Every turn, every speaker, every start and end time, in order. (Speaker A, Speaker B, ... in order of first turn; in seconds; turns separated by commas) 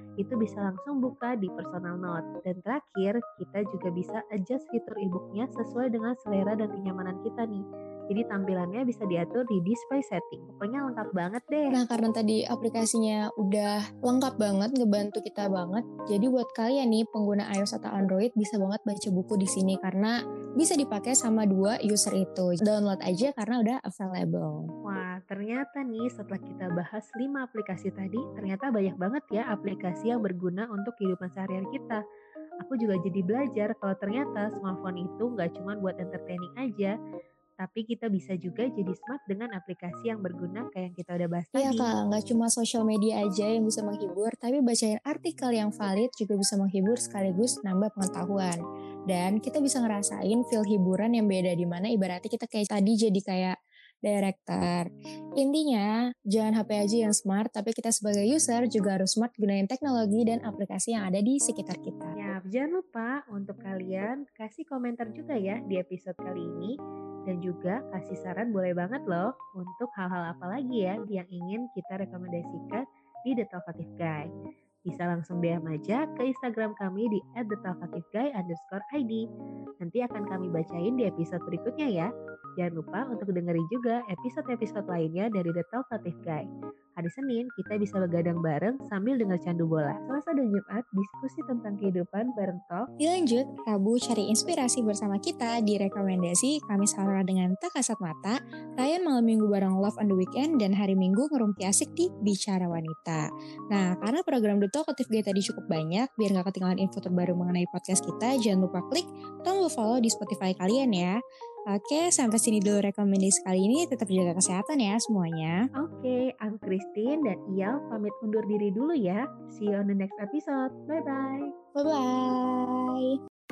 Speaker A: 0.2-11.8, Speaker B: 11.7-24.7, Speaker A: 24.8-32.0, Speaker A: 32.6-36.9, Speaker A: 37.6-41.9, Speaker B: 41.5-62.1, Speaker A: 62.1-66.7, Speaker A: 67.2-74.3, Speaker A: 74.9-79.2, Speaker A: 79.8-86.4, Speaker A: 87.0-92.8, Speaker B: 93.0-111.2, Speaker B: 111.7-115.6, Speaker A: 115.8-121.5, Speaker B: 121.7-123.1